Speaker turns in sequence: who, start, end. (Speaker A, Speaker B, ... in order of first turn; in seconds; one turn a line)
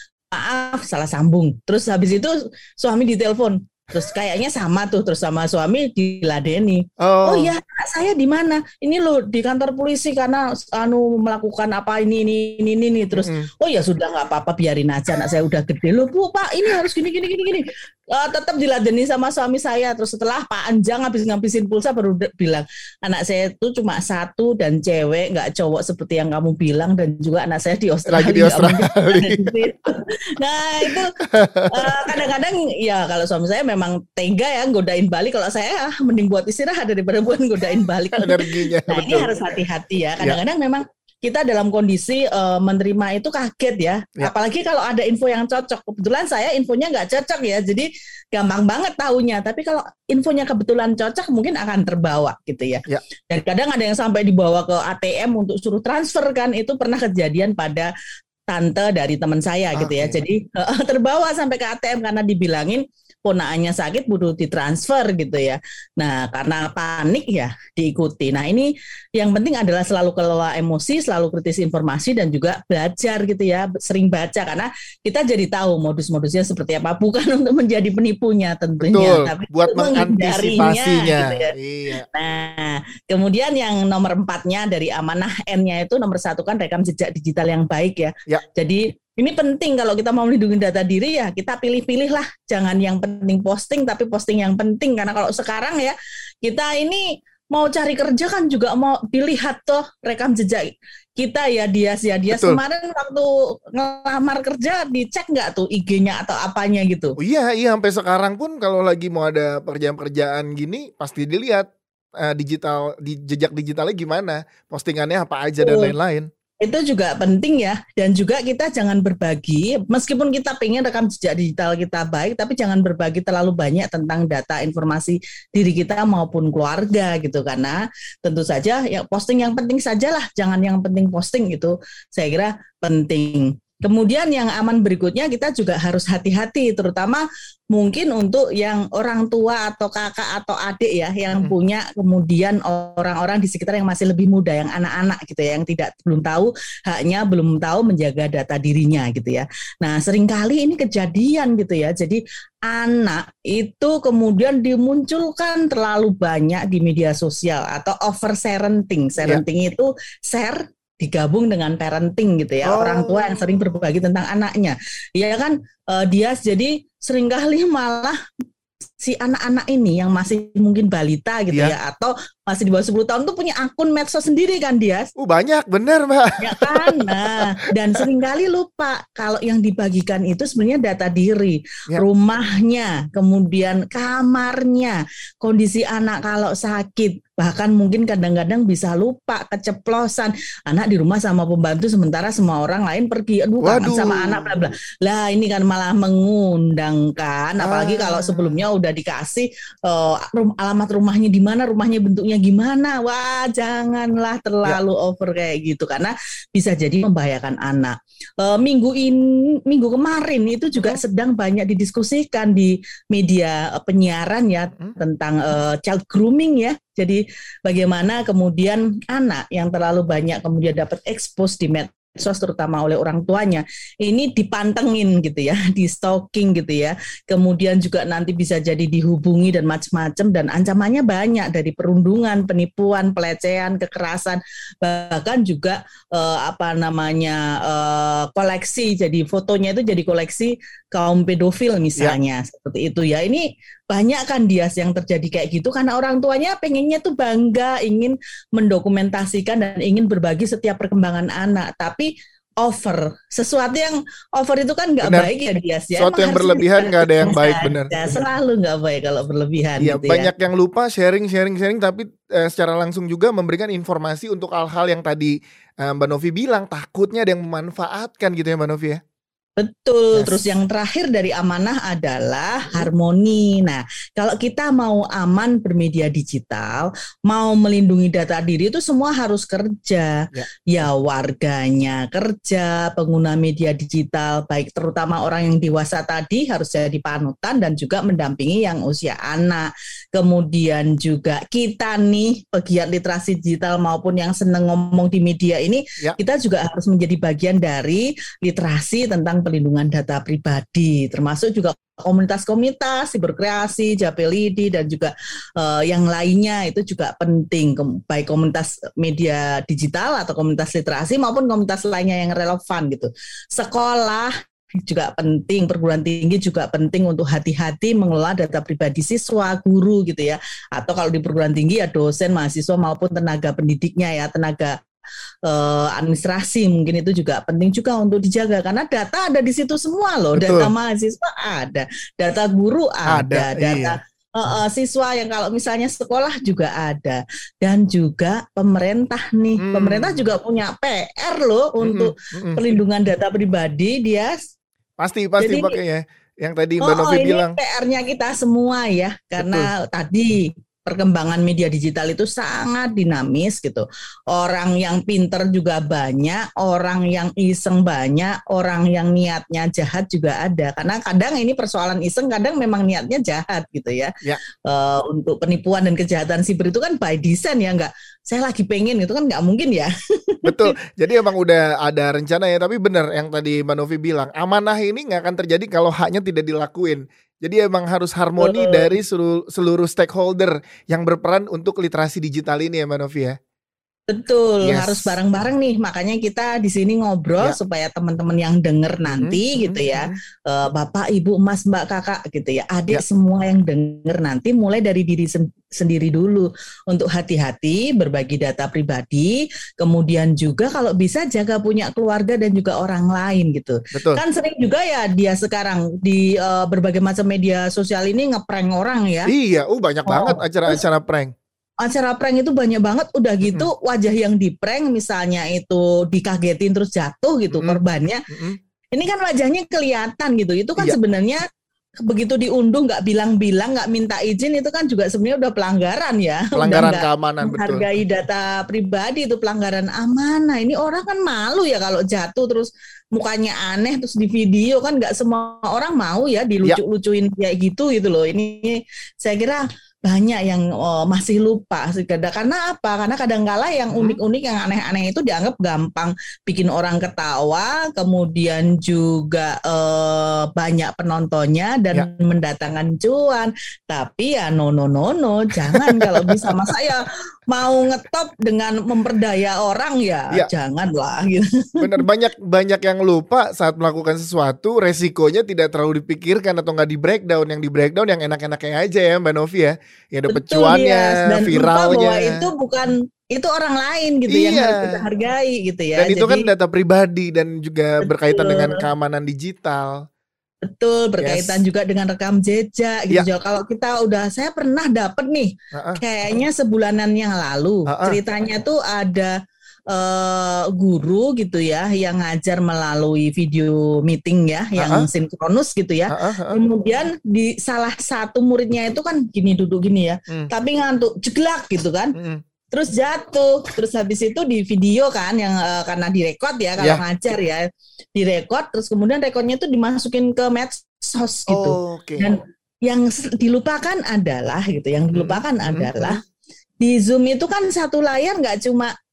Speaker A: 0.3-31.1
Speaker B: 7.0-7.5
Speaker B: 13.1-13.5
Speaker B: 28.1-29.5
Speaker B: 30.8-32.1
Speaker A: 31.7-57.9
Speaker B: 38.1-39.3
Speaker A: 58.5-81.5
Speaker B: 59.7-60.2
Speaker B: 78.8-82.1
Speaker A: 82.1-107.2
Speaker B: 102.3-102.6
Speaker B: 107.2-111.7
Speaker B: 112.2-116.3
Speaker A: 115.6-115.9
Speaker A: 116.6-168.2
Speaker B: 162.6-163.6
Speaker A: 169.0-175.1
Speaker B: 175.2-177.4
Speaker A: 176.4-260.3
Speaker B: 193.6-194.5
Speaker B: 197.6-198.6
Speaker B: 210.8-211.0
Speaker B: 255.0-255.3
Speaker B: 256.0-257.9
Speaker B: 259.8-269.0
Speaker A: 269.6-324.8
Speaker A: 325.5-344.4
Speaker B: 330.4-330.7
Speaker B: 333.1-333.9
Speaker B: 339.6-340.2
Speaker B: 341.8-342.6
Speaker B: 345.0-347.6
Speaker A: 345.4-345.8
Speaker A: 346.8-364.1
Speaker B: 349.4-349.7
Speaker A: 364.6-370.7
Speaker B: 370.4-383.4
Speaker A: 378.4-378.9
Speaker A: 384.1-409.3
Speaker B: 384.6-385.1
Speaker B: 389.1-390.2
Speaker B: 403.9-404.2
Speaker B: 409.3-411.3
Speaker A: 410.1-410.8
Speaker A: 411.8-418.2
Speaker B: 413.4-413.7
Speaker B: 417.5-418.6
Speaker A: 418.9-421.4
Speaker A: 422.0-462.0
Speaker B: 426.6-427.8
Speaker B: 443.9-444.2
Speaker B: 455.7-456.6
Speaker B: 461.8-472.5
Speaker A: 470.3-476.5
Speaker B: 474.3-475.0
Speaker B: 476.0-480.0
Speaker A: 478.0-478.8
Speaker A: 480.6-489.3
Speaker B: 481.2-481.6
Speaker B: 485.7-486.0
Speaker B: 487.9-488.2
Speaker A: 489.9-502.1
Speaker B: 494.8-495.1
Speaker B: 496.1-496.6
Speaker B: 502.1-502.4
Speaker A: 502.7-516.2
Speaker B: 511.5-512.3
Speaker B: 515.1-516.2
Speaker A: 516.8-518.9